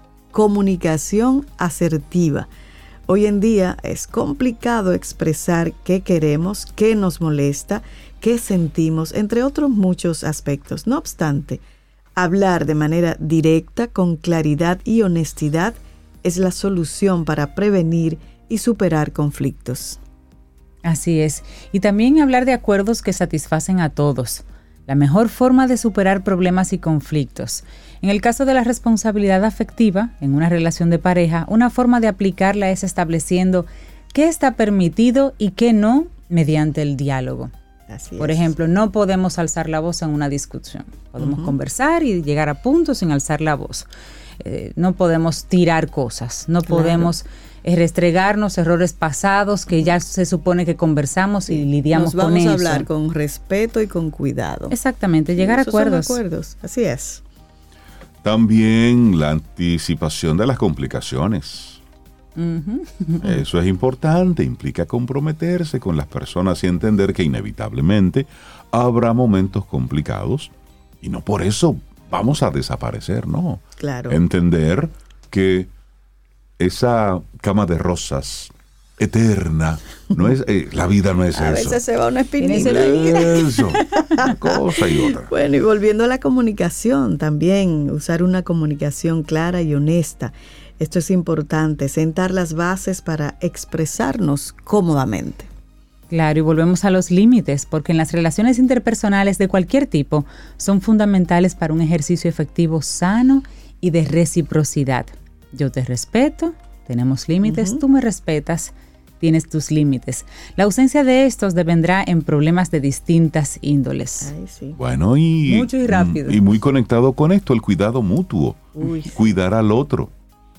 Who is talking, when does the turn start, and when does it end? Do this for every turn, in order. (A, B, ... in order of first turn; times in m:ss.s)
0:00.3-0:02.5 A
0:03.1-0:11.6 A
0:12.2-0:20.0 A
0:20.8-0:37.5 B
0:37.9-0:38.5 A
0:38.2-0:43.9 B
0:41.2-0:41.6 A
0:44.4-0:52.9 B
0:46.7-0:47.1 A
0:51.5-0:54.7 A
0:54.7-0:56.2 B
0:55.4-0:57.2 A
0:58.2-1:01.8 C
1:02.4-1:03.2 B
1:03.2-1:15.7 C
1:13.8-1:14.2 A
1:16.6-1:21.8 C
1:21.3-1:23.6 A
1:22.4-1:24.2 B
1:22.5-1:25.3 C
1:24.2-1:24.5 A
1:25.3-1:35.5 A
1:36.1-1:54.3 B
1:47.4-1:47.8 A
1:54.2-1:54.8 A
1:54.8-2:00.1 C
1:55.5-1:56.4 B
1:58.8-1:59.1 A